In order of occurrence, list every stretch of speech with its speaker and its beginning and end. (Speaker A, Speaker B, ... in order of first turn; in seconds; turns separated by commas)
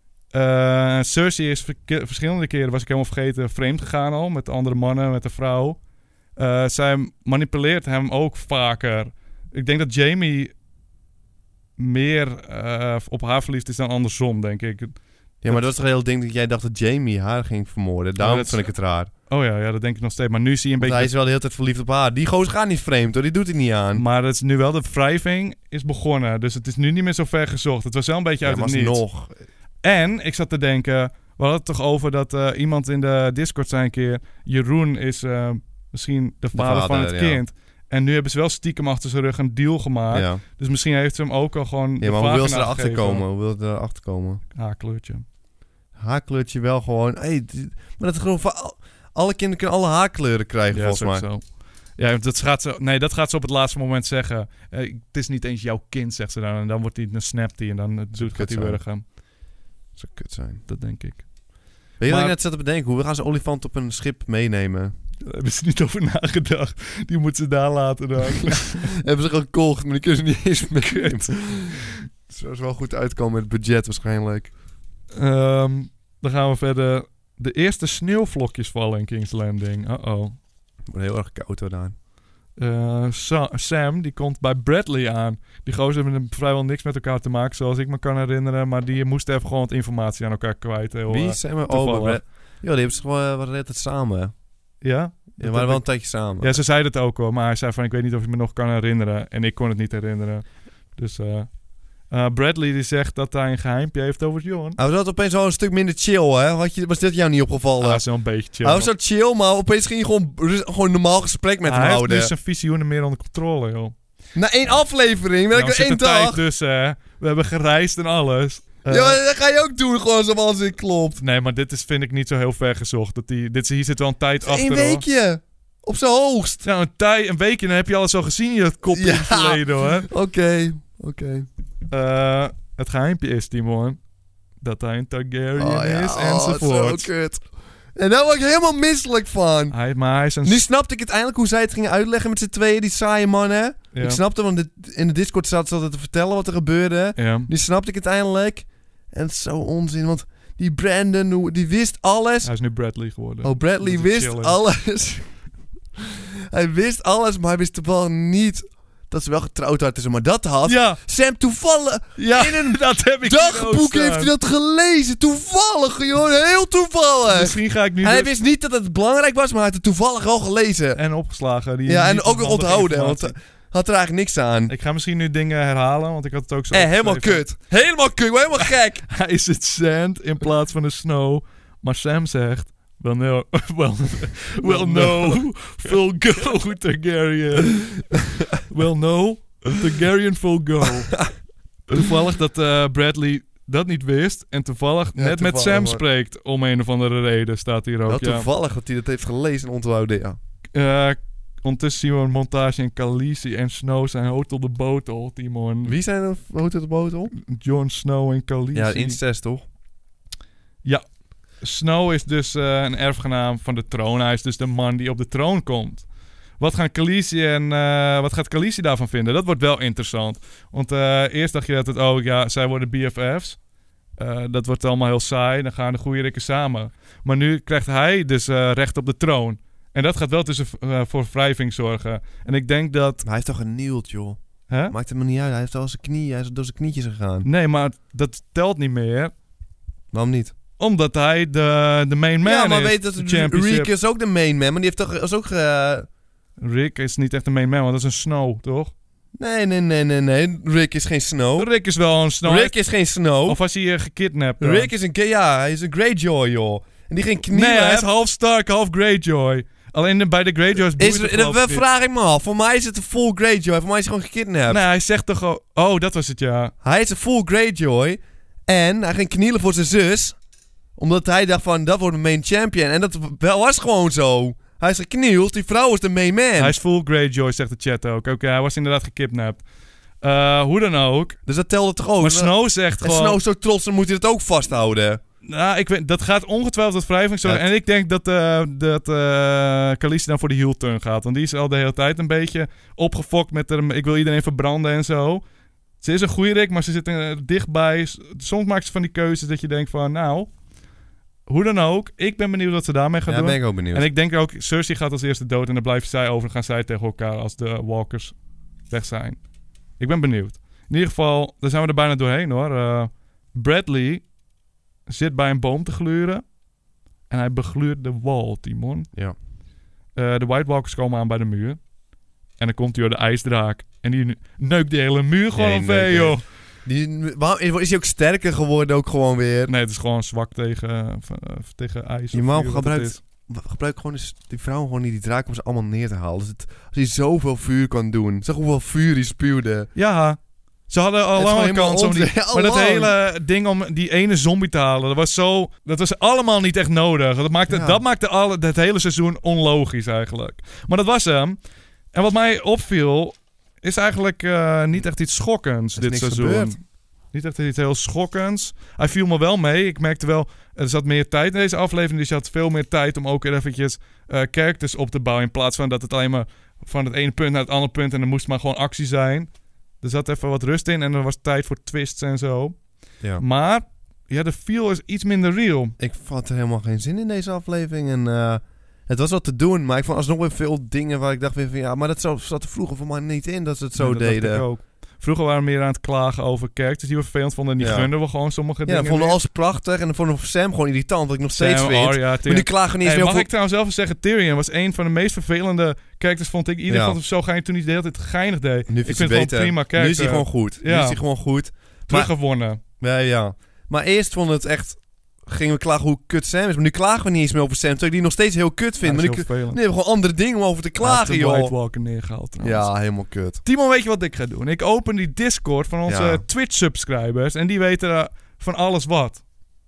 Speaker A: 0.3-5.8, Speaker A: 6.3-10.5, Speaker A: 11.8-14.9, Speaker B: 15.4-19.1, Speaker A: 18.2-18.7, Speaker A: 19.3-21.1, Speaker B: 20.8-24.0, Speaker A: 23.9-29.0, Speaker B: 28.4-29.3, Speaker A: 29.8-43.2, Speaker B: 36.5-37.4, Speaker B: 40.1-40.4, Speaker B: 42.0-44.4, Speaker A: 44.5-45.2, Speaker B: 46.0-51.2, Speaker A: 50.7-59.0, Speaker B: 58.1-58.8, Speaker B: 59.9-60.6, Speaker A: 60.7-61.3, Speaker A: 62.0-62.4, Speaker B: 62.0-64.9, Speaker A: 65.2-68.9, Speaker B: 68.4-71.8, Speaker A: 70.8-71.9, Speaker B: 72.3-74.5, Speaker A: 75.1-80.3, Speaker B: 80.9-81.9, Speaker A: 82.5-92.2, Speaker B: 91.1-94.3, Speaker A: 94.8-101.5, Speaker B: 95.4-96.6, Speaker A: 102.1-104.8, Speaker B: 104.8-108.0, Speaker A: 107.8-108.9, Speaker B: 108.6-112.3, Speaker A: 111.7-113.9, Speaker B: 114.3-116.4, Speaker A: 115.5-119.2, Speaker B: 118.8-121.2, Speaker A: 121.2-125.0, Speaker B: 124.4-126.6, Speaker A: 126.6-130.1, Speaker B: 128.9-131.5, Speaker A: 131.9-134.0, Speaker A: 134.6-137.1, Speaker B: 135.6-139.7, Speaker A: 139.7-140.6, Speaker B: 140.4-152.5, Speaker A: 143.9-144.2, Speaker A: 147.2-147.5, Speaker A: 152.4-154.6, Speaker B: 153.4-155.3, Speaker B: 156.5-171.0, Speaker A: 160.7-161.0, Speaker A: 162.2-164.3, Speaker A: 167.3-168.3, Speaker A: 170.9-173.3, Speaker B: 171.8-174.7, Speaker A: 174.7-177.5, Speaker B: 176.7-179.0, Speaker A: 178.6-188.0, Speaker B: 184.6-186.0, Speaker A: 188.6-191.2, Speaker A: 191.9-198.5, Speaker B: 195.2-196.0, Speaker B: 198.1-200.4, Speaker A: 200.7-205.9, Speaker B: 205.8-207.3, Speaker A: 207.4-209.2, Speaker B: 208.7-209.6, Speaker A: 211.6-216.1, Speaker A: 216.6-223.6, Speaker A: 224.2-233.2, Speaker B: 233.2-237.5, Speaker A: 234.7-234.9, Speaker A: 237.4-239.3, Speaker B: 240.1-240.5, Speaker A: 240.8-243.9, Speaker B: 242.4-246.1, Speaker A: 246.6-248.9, Speaker B: 249.4-251.7, Speaker A: 251.6-252.8, Speaker B: 252.4-253.6, Speaker A: 253.4-254.9, Speaker B: 254.6-258.1, Speaker A: 257.4-261.8, Speaker B: 260.9-264.8, Speaker A: 264.7-266.7, Speaker B: 266.8-270.4, Speaker B: 270.9-276.8, Speaker A: 276.6-279.6, Speaker A: 280.2-281.4, Speaker B: 281.4-285.2, Speaker A: 282.2-283.4, Speaker A: 285.4-295.4, Speaker A: 296.0-300.5, Speaker A: 301.5-308.3, Speaker B: 303.3-304.1, Speaker A: 308.9-309.4, Speaker A: 310.0-314.2, Speaker A: 315.1-316.4, Speaker A: 317.3-319.1, Speaker A: 320.1-321.8, Speaker A: 322.6-326.4, Speaker B: 325.5-329.7, Speaker A: 329.7-333.2, Speaker B: 332.3-339.9, Speaker A: 339.9-351.6, Speaker B: 341.4-343.1, Speaker B: 347.7-348.0, Speaker A: 352.1-356.8, Speaker B: 355.9-356.8, Speaker A: 357.3-369.5, Speaker A: 370.0-372.8, Speaker A: 373.4-375.9, Speaker B: 376.0-384.6, Speaker A: 383.9-389.4, Speaker B: 387.8-388.1, Speaker B: 388.8-393.5, Speaker A: 391.5-401.2, Speaker B: 396.9-397.2, Speaker B: 398.9-411.7, Speaker A: 402.1-402.8, Speaker A: 409.0-409.8, Speaker A: 411.0-412.9, Speaker B: 412.6-413.6, Speaker A: 413.6-419.4, Speaker B: 416.1-416.4